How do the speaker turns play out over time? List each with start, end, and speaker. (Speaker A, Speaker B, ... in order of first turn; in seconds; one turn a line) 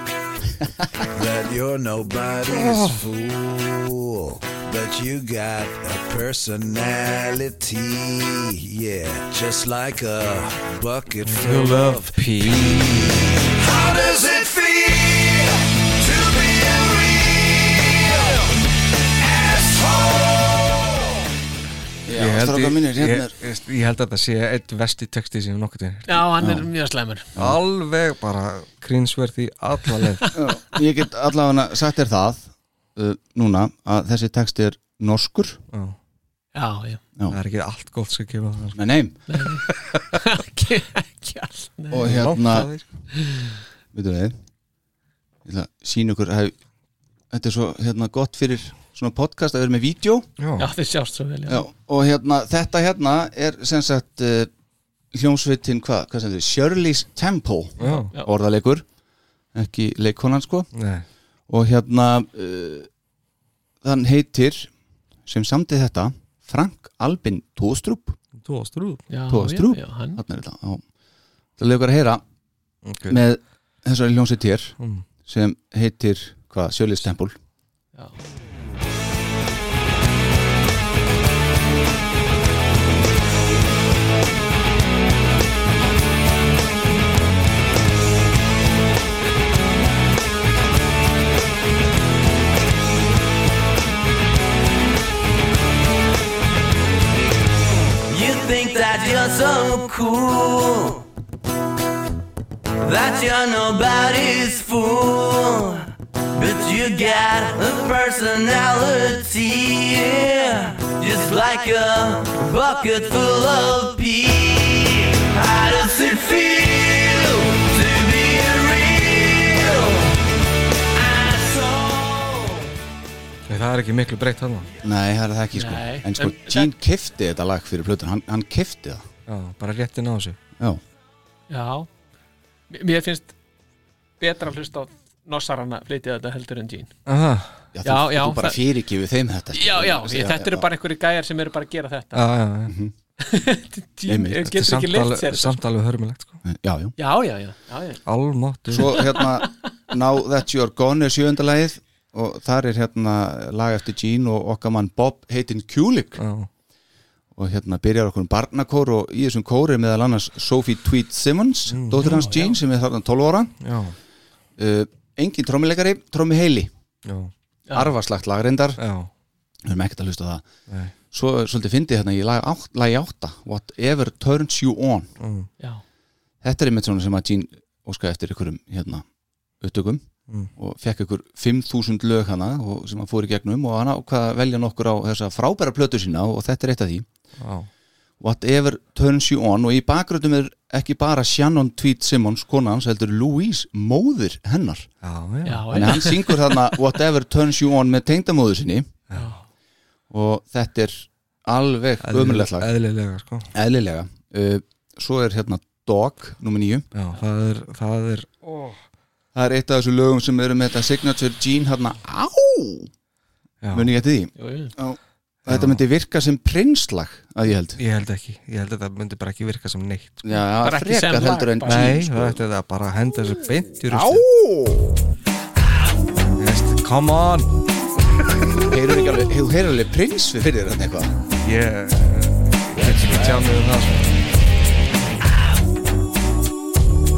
Speaker A: 1.1-18.4
Speaker B: 2.5-3.0
Speaker B: 11.2-13.2
Speaker A: 19.2-20.7
Speaker C: 22.1-23.4
Speaker B: 22.2-26.3
Speaker D: 26.1-27.3
Speaker B: 27.4-30.3
Speaker C: 30.4-35.6
Speaker D: 36.5-37.0
Speaker B: 37.3-38.8
Speaker C: 38.8-39.2
Speaker D: 39.3-42.3
Speaker B: 39.7-40.0
Speaker C: 41.9-42.7
Speaker B: 42.0-42.8
Speaker D: 43.2-43.5
Speaker C: 43.9-44.4
Speaker C: 45.5-46.5
Speaker C: 47.3-50.3
Speaker B: 50.4-50.7
Speaker D: 50.6-51.6
Speaker C: 51.5-54.5
Speaker C: 55.1-58.9
Speaker B: 57.8-58.1
Speaker D: 57.8-58.3
Speaker C: 59.5-60.7
Speaker B: 60.7-61.0
Speaker C: 61.5-62.9
Speaker C: 63.8-64.7
Speaker C: 65.3-68.2
Speaker B: 68.4-69.0
Speaker D: 69.1-70.2
Speaker C: 69.3-70.8
Speaker C: 71.6-72.2
Speaker B: 72.9-73.2
Speaker C: 73.1-77.4
Speaker B: 74.8-75.0
Speaker E: 98.1-101.0
Speaker E: 102.8-120.1
Speaker E: 121.0-122.6
Speaker B: 123.5-124.7
Speaker C: 124.8-129.1
Speaker D: 125.5-126.7
Speaker B: 129.3-130.4
Speaker D: 131.5-131.9
Speaker D: 132.7-133.3
Speaker D: 134.2-136.9
Speaker B: 137.1-137.6
Speaker C: 137.7-140.7
Speaker D: 137.8-138.6
Speaker D: 139.5-142.3
Speaker B: 142.2-142.8
Speaker C: 142.7-142.9
Speaker D: 143.2-145.6
Speaker C: 144.1-144.4
Speaker B: 144.5-146.4
Speaker C: 146.4-146.9
Speaker D: 147.0-148.0
Speaker B: 148.1-149.0
Speaker C: 148.7-156.2
Speaker B: 156.2-156.5
Speaker C: 157.3-163.6
Speaker B: 161.7-162.2
Speaker D: 162.0-162.6
Speaker B: 163.6-163.9
Speaker C: 164.6-166.7
Speaker B: 167.1-167.3
Speaker C: 167.7-168.8
Speaker B: 168.8-169.1
Speaker C: 169.7-170.5
Speaker B: 170.7-170.9
Speaker C: 171.1-175.1
Speaker B: 175.2-175.5
Speaker C: 176.4-179.1
Speaker C: 179.6-187.1
Speaker B: 187.4-187.7
Speaker C: 188.2-194.9
Speaker B: 195.0-195.7
Speaker D: 195.5-196.8
Speaker C: 195.7-198.9
Speaker D: 199.1-199.4
Speaker C: 200.1-202.7
Speaker B: 202.0-203.5
Speaker C: 203.5-206.9
Speaker B: 206.9-208.8
Speaker C: 209.3-212.9
Speaker B: 213.6-213.9
Speaker C: 213.7-217.8
Speaker D: 214.4-214.7
Speaker B: 215.5-215.8
Speaker B: 217.8-220.3
Speaker C: 220.2-222.4
Speaker D: 220.6-221.9
Speaker B: 221.7-224.2
Speaker C: 223.9-225.0
Speaker B: 226.4-227.5
Speaker B: 228.4-228.6
Speaker C: 228.6-231.2
Speaker B: 231.4-234.2
Speaker C: 232.8-233.4